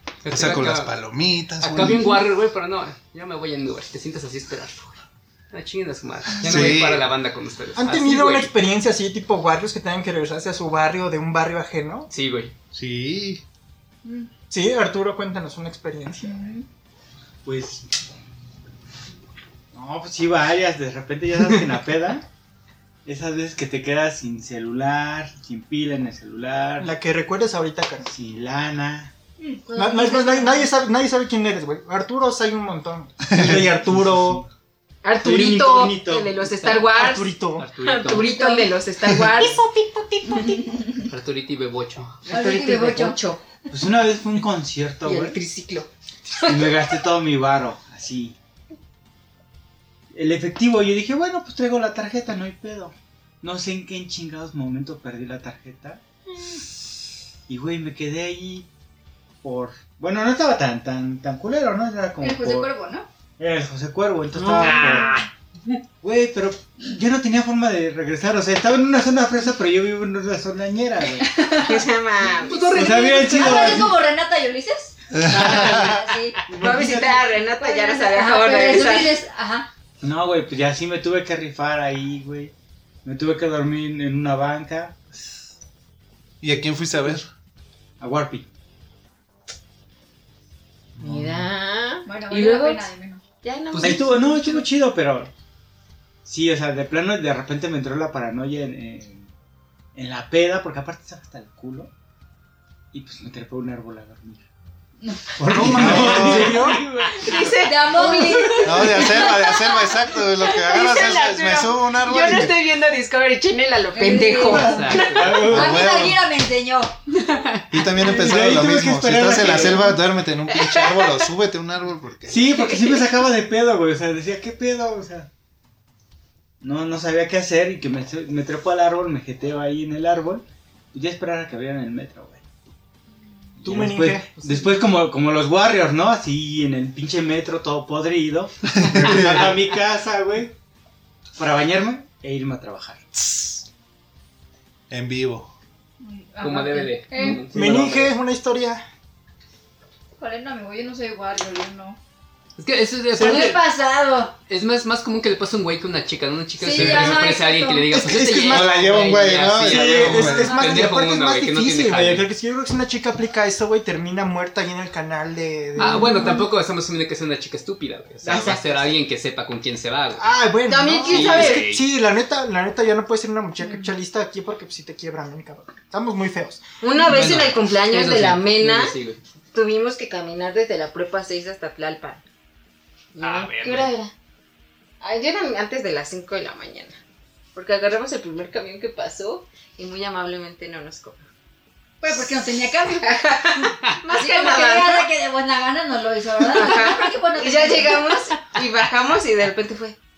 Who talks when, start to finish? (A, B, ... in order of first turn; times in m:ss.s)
0:00.2-0:00.9 A
0:00.3-0:02.1 B
0:01.6-0:05.0 A
0:05.5-0:08.5 A
0:06.4-0:07.1 B
0:07.8-0:12.1 C
0:12.1-0:12.5 A
0:12.7-0:13.4 B
0:14.5-0:16.4 C
0:16.2-0:16.6 D
0:17.4-0:17.8 E
0:19.7-0:22.2 E
0:23.0-0:26.9 E
0:26.8-0:28.1 C
0:28.0-0:29.1 E
0:29.4-0:30.7 D
0:29.8-0:34.4 C
0:33.4-0:34.4 E
0:35.0-0:40.8 F
0:35.2-0:36.4 E
0:36.6-0:36.8 A
0:36.9-0:37.7 C
0:37.6-0:38.3 A
0:38.1-0:38.7 D
0:40.3-0:41.0 D
0:41.1-0:42.2 A
0:42.2-0:43.4 F
0:42.3-0:43.2 D
0:43.7-0:45.4 E
0:45.0-0:46.9 F
0:46.5-0:48.4 E
0:50.1-0:56.0 E
0:57.5-0:58.7 E
0:59.4-1:02.7 E
1:02.2-1:03.1 D
1:03.4-1:05.2 E
1:04.4-1:05.2 F
1:04.6-1:05.0 A
1:06.0-1:11.3 E
1:11.2-1:16.4 D
1:11.6-1:12.7 F
1:12.6-1:14.0 E
1:15.2-1:15.8 B
1:15.3-1:17.3 E
1:16.5-1:19.2 F
1:17.5-1:19.7 D
1:20.0-1:22.5 E
1:23.0-1:25.0 E
1:26.4-1:27.2 B
1:28.0-1:28.4 E
1:31.0-1:31.4 E
1:31.0-1:32.9 F
1:32.0-1:33.2 D
1:33.4-1:34.5 F
1:33.7-1:34.6 A
1:33.8-1:35.3 E
1:36.2-1:39.3 E
1:39.9-1:41.9 E
1:42.9-1:44.4 E
1:45.0-1:45.8 D
1:45.4-1:48.2 E
1:45.5-1:46.8 C
1:45.6-1:46.6 B
1:47.2-1:55.4 F
1:47.5-1:49.0 D
1:48.6-1:52.6 B
1:53.9-1:57.0 D
1:54.4-1:55.9 E
1:54.6-1:55.4 A
1:55.5-1:56.2 B
1:57.3-1:58.1 F
1:57.7-2:02.5 B
1:58.0-1:59.9 E
2:00.5-2:01.3 F
2:02.3-2:05.3 E
2:02.5-2:03.1 F
2:06.6-2:12.4 E
2:13.6-2:20.5 E
2:13.6-2:14.8 C
2:18.8-2:19.5 B
2:21.4-2:23.0 E
2:23.2-2:23.6 B
2:24.9-2:25.5 B
2:26.0-2:27.4 D
2:26.4-2:28.0 A
2:27.3-2:28.1 E
2:27.5-2:28.8 C
2:30.2-2:32.0 D
2:32.6-2:33.6 A
2:33.1-2:34.3 D
2:34.5-2:42.3 A
2:36.6-2:38.0 D
2:36.8-2:37.1 C
2:37.9-2:38.9 C
2:38.1-2:40.6 B
2:39.6-2:46.3 C
2:40.3-2:40.9 D
2:45.8-2:46.5 D
2:45.8-2:50.2 A
2:48.2-2:48.9 F
2:50.1-2:56.6 C
2:50.7-2:51.6 F
2:51.0-2:51.8 A
2:53.6-2:53.9 D
2:56.8-2:58.9 F
2:57.0-2:59.2 A
2:59.5-3:02.2 F
3:03.1-3:04.1 F
3:03.2-3:03.9 A
3:05.0-3:07.0 F
3:07.5-3:11.2 F
3:12.0-3:13.1 D
3:13.0-3:15.1 F
3:14.1-3:18.2 D
3:16.4-3:20.0 F